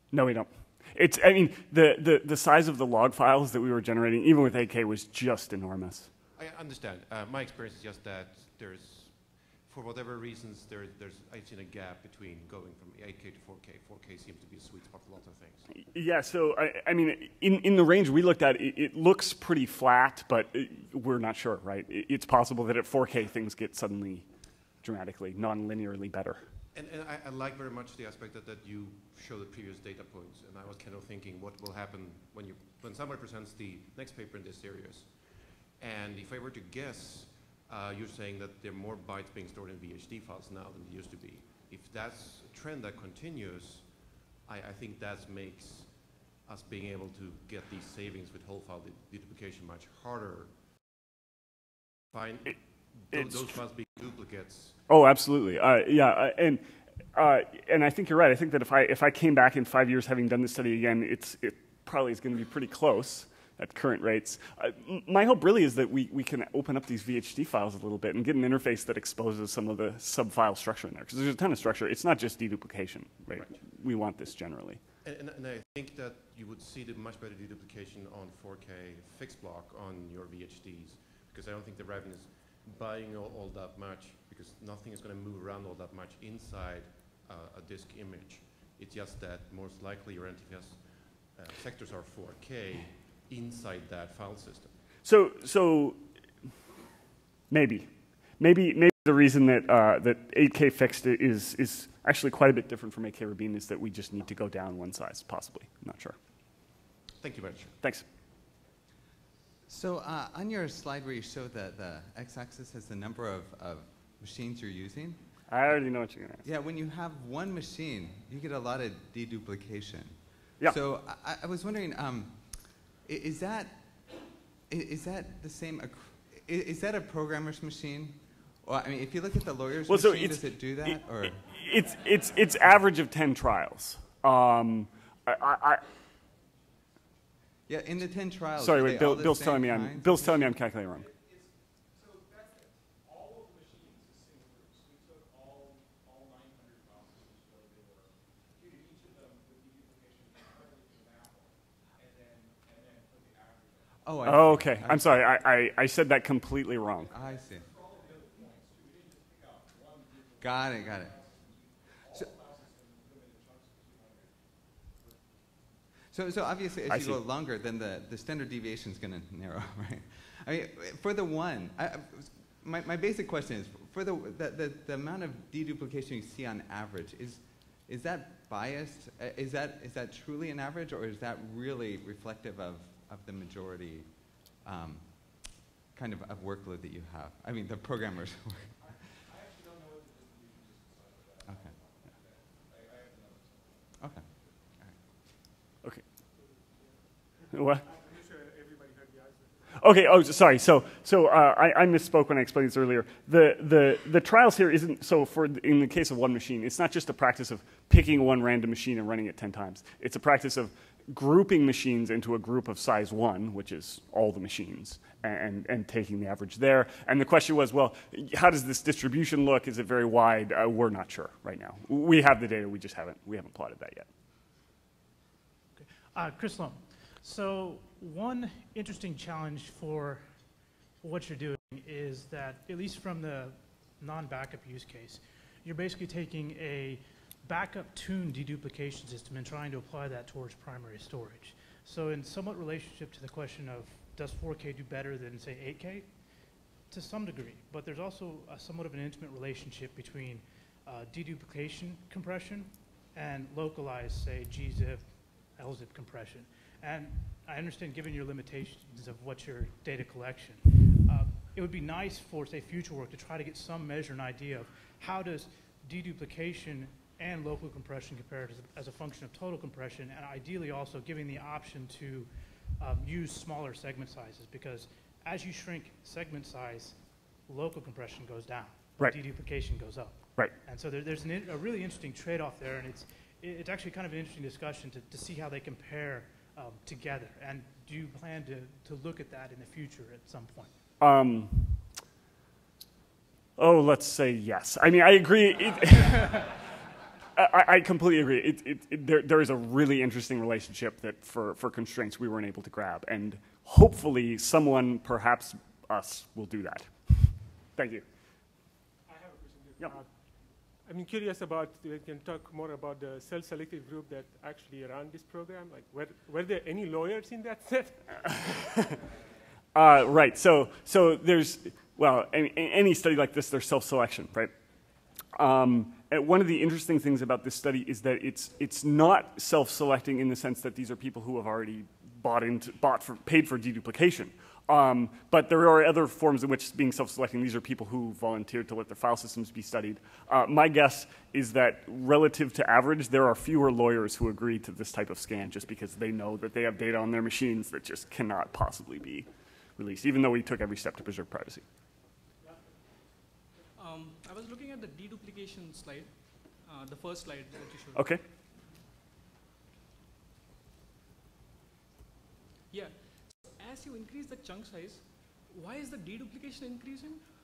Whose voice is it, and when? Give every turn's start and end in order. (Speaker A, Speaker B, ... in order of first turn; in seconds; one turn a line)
Speaker A: 0.1-6.1
Speaker B: 6.4-15.7
Speaker A: 15.7-24.3
Speaker A: 24.8-26.4
Speaker B: 26.7-35.2
Speaker B: 35.8-43.9
Speaker B: 44.5-45.9
Speaker B: 46.5-50.5
Speaker B: 52.1-54.8
Speaker A: 54.9-56.6
Speaker A: 57.1-74.8
Speaker B: 75.0-94.7
Speaker A: 95.0-96.0
Speaker A: 97.5-106.2
Speaker B: 107.2-107.8
Speaker A: 107.8-108.1
Speaker C: 109.7-115.2
Speaker A: 115.5-116.5
Speaker C: 116.4-123.9
Speaker C: 124.7-131.5
Speaker A: 129.9-135.9
Speaker C: 137.7-140.6
Speaker A: 138.6-141.1
Speaker C: 154.0-155.2
Speaker A: 154.2-157.1
Speaker C: 157.1-157.8
Speaker C: 160.4-161.4
Speaker C: 162.1-162.4
Speaker C: 166.1-189.0
Speaker A: 166.9-167.2
Speaker C: 191.5-191.7
Speaker C: 194.0-195.0
Speaker D: 196.4-196.9
Speaker A: 197.5-197.8
Speaker D: 197.5-199.8
Speaker A: 199.8-224.1
Speaker E: 225.8-230.2
Speaker E: 231.0-246.1
Speaker E: 246.9-255.1
Speaker E: 255.6-277.0
Speaker E: 277.5-290.7
Speaker A: 291.0-291.8
Speaker A: 293.6-296.5
Speaker A: 297.4-308.0
Speaker D: 309.1-310.2
Speaker D: 310.9-318.4
Speaker A: 318.4-319.0
Speaker A: 319.8-324.5
Speaker A: 325.3-349.3
Speaker A: 349.8-351.6
Speaker F: 353.8-358.1
Speaker A: 357.9-358.2
Speaker F: 362.7-363.0
Speaker F: 363.6-367.2